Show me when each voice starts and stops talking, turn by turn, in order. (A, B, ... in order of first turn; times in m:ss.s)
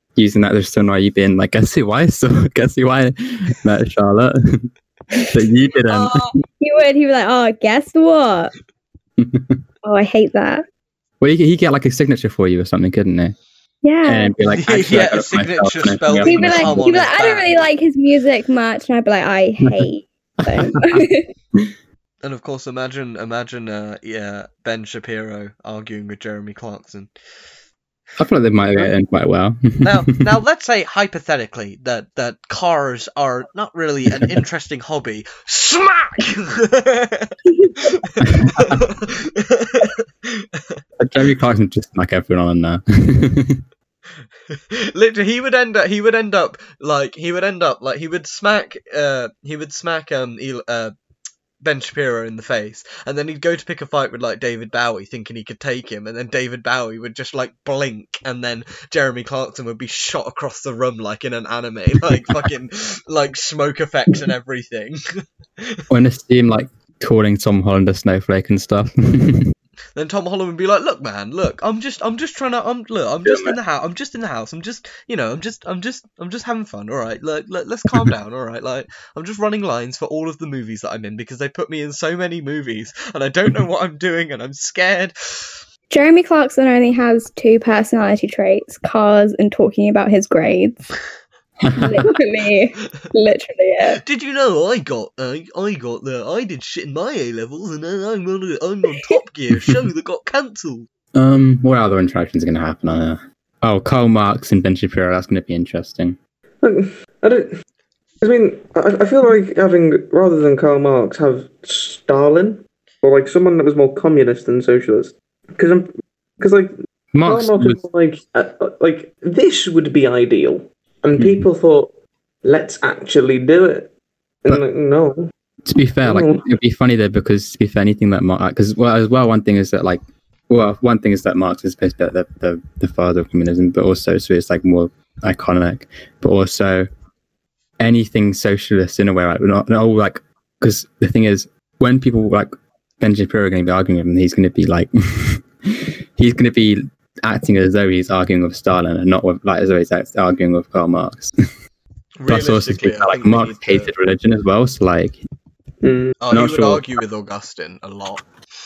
0:00.2-0:04.7 A
0:05.3-0:06.2 A
0:05.9-0:08.5 B
0:09.2-0:09.6 A
0:09.8-0:10.6 B
0:11.2-0:13.4 A
0:13.8-0:14.4 B
0:14.0-0:16.9 A
0:14.4-0:17.5 C
0:16.2-0:21.3 B
0:20.4-0:21.7 A
0:22.2-0:27.1 C
0:28.2-0:30.2 A
0:29.8-0:40.8 C
0:37.5-0:37.9 B
0:38.2-0:38.8 A
0:41.0-0:43.6 A
0:44.5-0:50.9 C
0:51.6-1:05.8 C
1:02.1-1:02.4 A
1:05.9-1:09.5 A
1:10.0-1:25.6 C
1:13.2-1:13.6 A
1:25.9-1:30.8 B
1:31.6-1:32.1 A
1:31.7-1:34.0 B
1:33.9-1:40.9 C
1:41.1-1:46.2 A
1:46.6-1:47.5 D
1:48.2-1:56.7 D
1:57.1-1:57.8 A
1:57.2-2:01.9 D
2:01.2-2:01.4 A
2:02.4-2:03.9 D
2:04.4-2:05.3 D
2:05.6-2:16.9 A
2:06.0-2:06.4 D
2:17.8-2:31.4 A
2:32.2-2:33.9 C
2:32.3-2:35.2 A
2:35.8-2:36.2 D
2:36.2-2:38.3 C
2:36.3-2:36.9 A